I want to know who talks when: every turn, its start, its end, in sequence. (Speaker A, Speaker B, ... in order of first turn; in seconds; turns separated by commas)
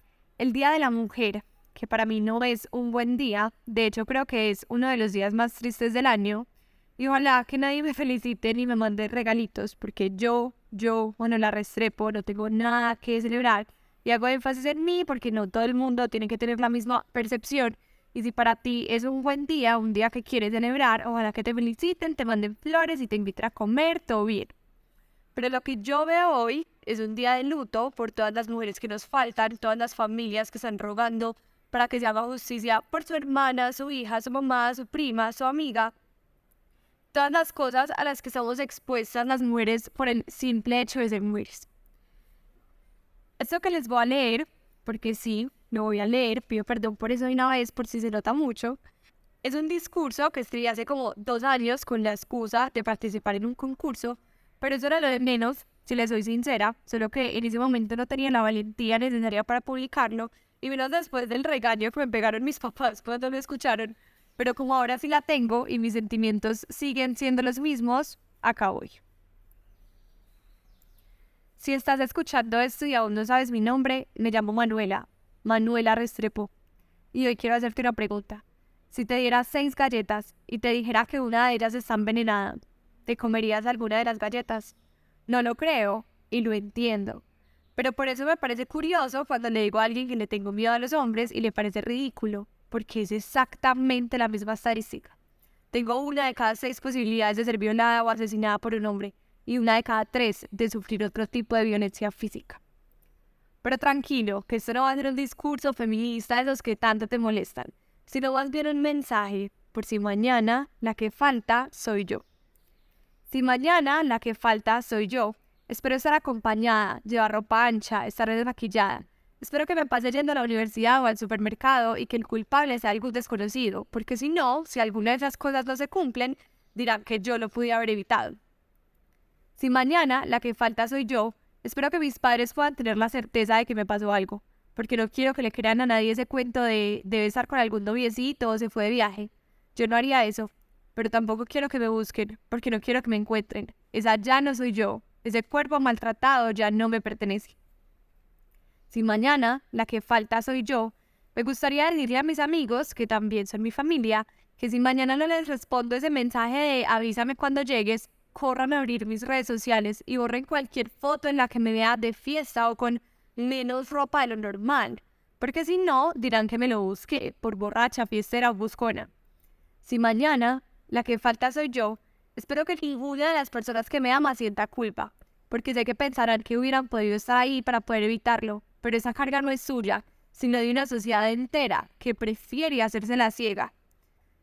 Speaker A: 0.4-6.5, Speaker A: 7.0-24.5, Speaker A: 25.3-35.9, Speaker A: 37.1-41.7, Speaker A: 43.4-48.8, Speaker A: 49.4-69.0, Speaker A: 71.6-76.5, Speaker A: 77.1-84.7, Speaker A: 85.3-87.2, Speaker A: 87.8-95.1, Speaker A: 95.7-102.6, Speaker A: 103.6-112.2, Speaker A: 113.3-128.4, Speaker A: 129.6-147.6, Speaker A: 148.9-169.1, Speaker A: 169.8-183.7